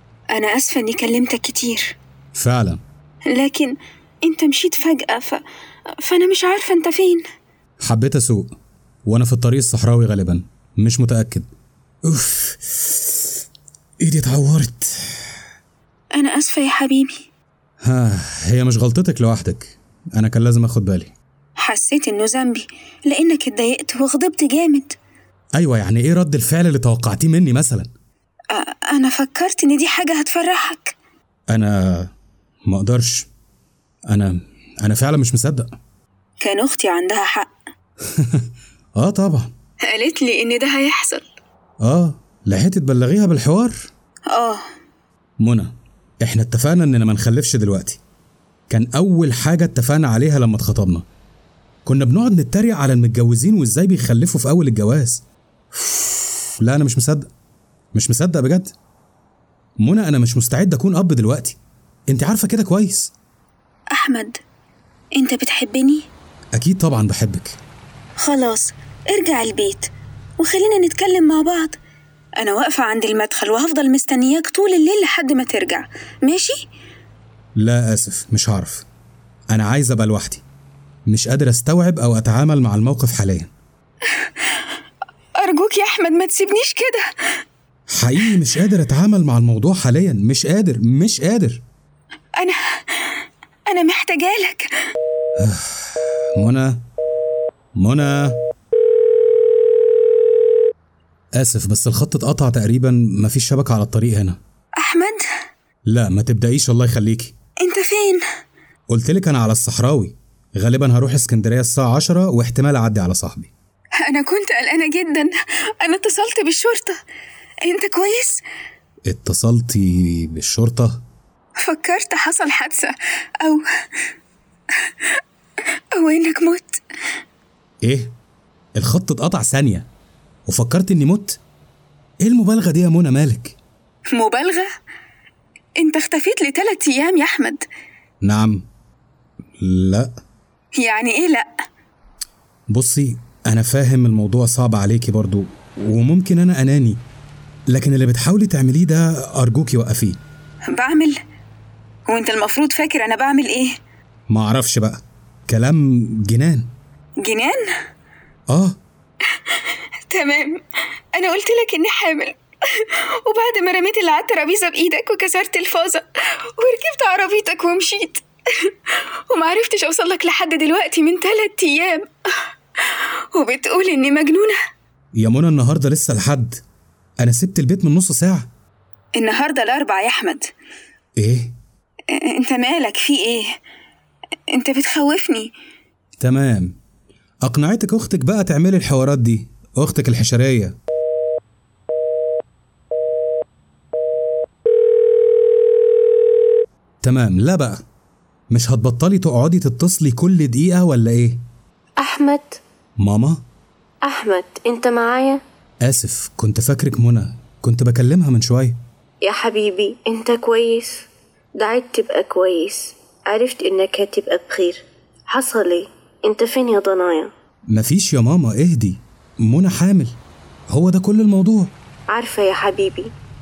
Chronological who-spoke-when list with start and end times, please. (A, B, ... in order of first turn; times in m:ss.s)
0:00.3-0:01.9 A
0:02.3-0:02.8 B
0:03.3-0:05.4 A
0:06.0-0:07.2 A
0:07.8-0:08.5 B
0:09.0-0:11.5 B
0:12.1-0:13.4 B
0:14.0-0:15.2 B
0:16.1-0:17.2 A
0:17.8-0:21.1 B
0:21.6-0:25.0 A
0:25.6-0:27.9 B
0:28.5-0:30.9 A
0:31.5-0:32.1 B
0:32.7-0:33.3 B
0:34.1-0:35.7 B
0:36.4-0:37.5 A
0:38.2-0:38.4 B
0:39.0-0:39.5 B
0:39.9-0:41.2 A
0:41.8-0:43.9 B
0:44.3-0:44.6 A
0:45.4-0:48.0 B
0:48.7-0:51.0 B
0:51.8-0:55.2 B
0:55.7-0:57.3 B
0:57.9-0:58.7 B
0:59.8-1:01.6 B
1:02.1-1:03.1 B
1:03.9-1:04.4 A
1:05.2-1:06.1 A
1:06.5-1:07.6 B
1:08.2-1:11.8 A
1:12.4-1:16.6 A
1:17.6-1:18.8 B
1:19.5-1:20.4 B
1:21.1-1:23.5 B
1:24.1-1:24.6 A
1:25.4-1:27.0 A
1:27.9-1:31.6 B
1:32.4-1:34.7 A
1:35.4-1:36.8 B
1:37.8-1:38.4 B
1:41.4-1:44.4 B
1:44.8-1:45.2 A
1:45.9-1:47.3 B
1:47.6-1:48.2 A
1:48.9-1:53.5 B
1:54.0-1:57.0 A
1:57.6-1:58.4 A
1:59.1-2:01.0 B
2:01.6-2:03.6 A
2:04.8-2:05.2 A
2:05.9-2:06.8 A
2:07.8-2:08.1 B
2:08.8-2:09.9 B
2:10.4-2:11.4 B
2:12.2-2:13.6 B
2:14.1-2:14.6 A
2:15.8-2:17.6 A
2:18.2-2:18.6 B
2:19.6-2:20.1 B
2:20.8-2:21.5 A
2:22.7-2:27.0 B
2:27.7-2:30.2 B
2:30.7-2:31.2 A
2:32.1-2:33.7 A
2:34.3-2:36.7 B
2:37.2-2:37.6 A
2:38.5-2:38.8 B
2:39.3-2:40.6 A
2:41.1-2:46.0 A
2:46.6-2:52.1 A
2:52.8-2:54.5 A
2:55.2-2:56.6 B
2:57.2-2:58.5 B
2:59.2-3:00.5 A
3:01.2-3:01.6 B
3:02.1-3:03.4 A
3:04.5-3:05.5 A
3:06.2-3:06.8 B
3:07.4-3:10.8 B
3:17.0-3:17.8 B
3:18.5-3:21.4 B
3:22.0-3:22.6 C
3:23.0-3:23.4 B
3:24.0-3:25.4 C
3:25.8-3:28.8 B
3:29.2-3:37.3 C
3:37.7-3:40.2 B
3:40.7-3:41.7 B
3:42.1-3:43.1 C